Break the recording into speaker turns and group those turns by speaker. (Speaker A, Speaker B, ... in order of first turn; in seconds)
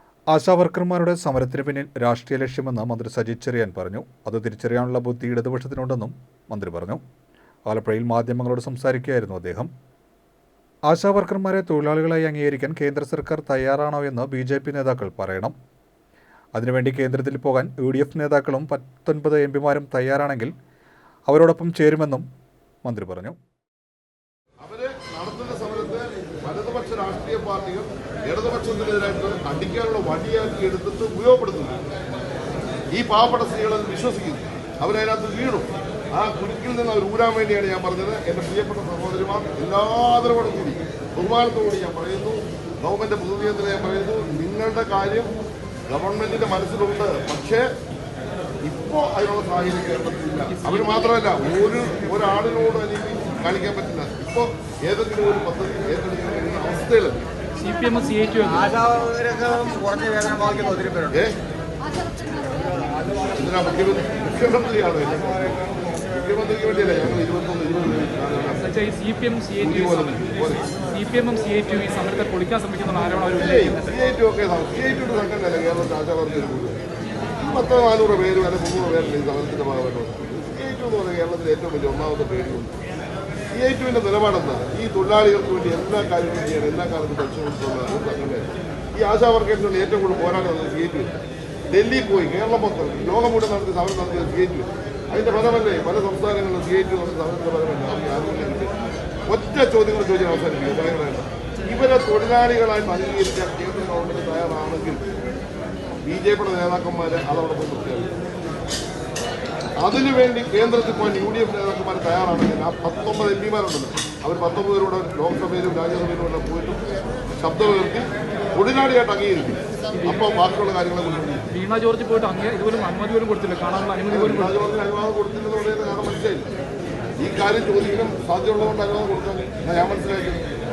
Speaker A: 0.3-7.0, 7.7-9.7, 10.9-15.5, 16.5-20.5, 21.3-22.3, 22.8-23.4
Speaker B: 24.6-31.8, 32.9-45.3, 45.9-47.6, 48.6-57.2, 61.1-61.4, 63.3-65.6, 66.1-68.6, 69.6-70.7, 73.4-76.8, 77.4-82.7, 83.5-91.1, 91.7-98.7, 99.3-105.0, 106.0-108.1, 109.8-116.8, 117.4-121.5, 124.1-126.5, 127.2-130.4
Speaker C: 50.5-51.1, 57.6-58.8, 68.6-70.2, 70.8-73.8, 119.9-120.3, 121.5-124.5
Speaker D: 58.7-61.1